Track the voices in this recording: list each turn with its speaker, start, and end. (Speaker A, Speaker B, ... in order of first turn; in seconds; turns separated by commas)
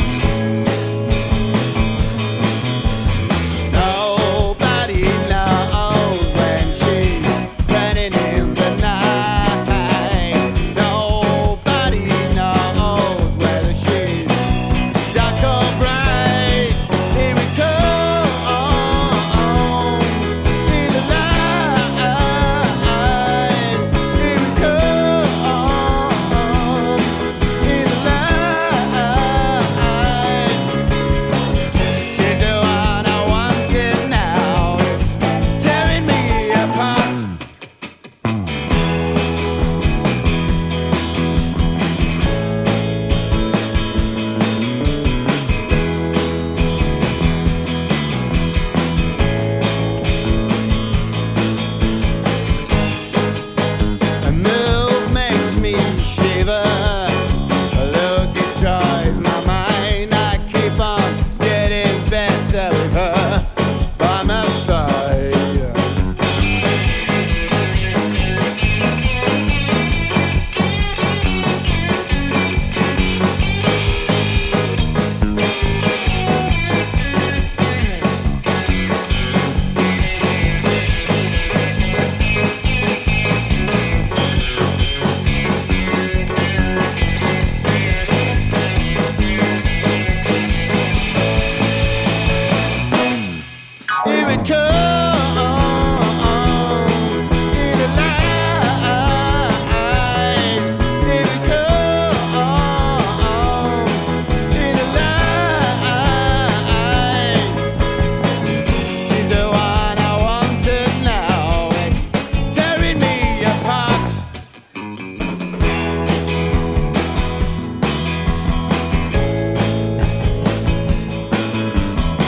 Speaker A: 3.7-14.5, Speaker A: 15.1-30.7, Speaker A: 32.1-37.4, Speaker A: 54.2-65.8, Speaker A: 94.0-107.7, Speaker A: 109.0-114.3